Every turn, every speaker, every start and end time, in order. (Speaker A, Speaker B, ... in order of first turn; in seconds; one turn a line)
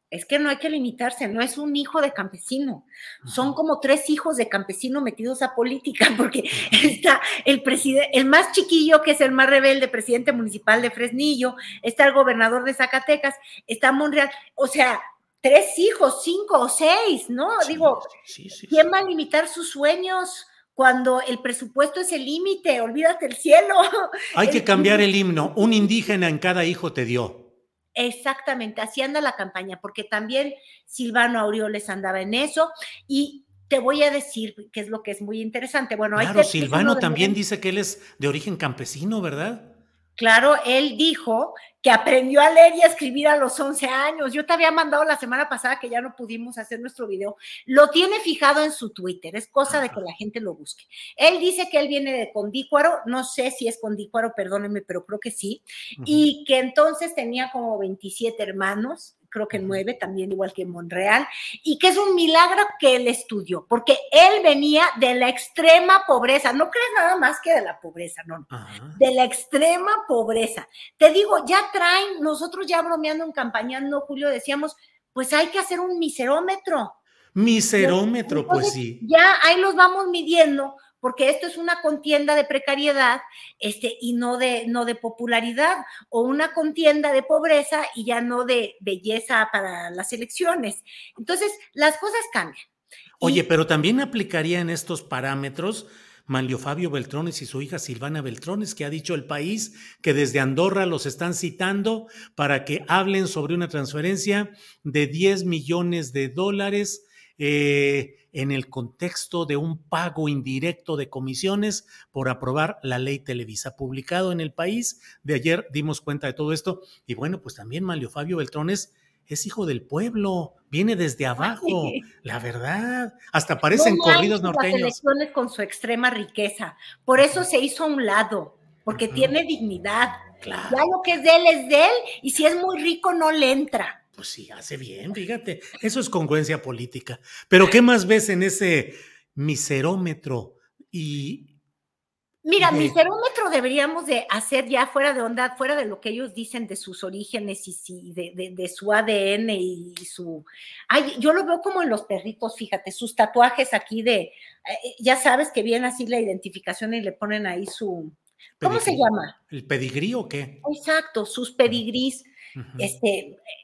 Speaker A: 0.1-18.1
Speaker B: 3.2-3.5
Speaker B: 6.6-6.8
Speaker B: 17.6-18.9
Speaker A: 18.7-25.9
Speaker B: 24.4-27.5
Speaker A: 28.0-37.4
Speaker B: 36.1-39.8
Speaker A: 40.2-77.0
Speaker B: 49.7-50.0
Speaker B: 56.0-56.2
Speaker B: 59.5-59.8
Speaker B: 68.5-69.0
Speaker B: 77.3-79.0
Speaker A: 77.8-92.6
Speaker B: 93.2-125.0
Speaker A: 121.4-122.0
Speaker A: 123.7-130.2
Speaker B: 128.9-129.3
Speaker B: 130.4-130.8
Speaker A: 130.7-134.0
Speaker B: 134.2-141.5
Speaker A: 142.4-159.3
Speaker B: 142.6-142.9
Speaker B: 158.6-160.6
Speaker A: 160.6-163.4
Speaker B: 162.6-162.9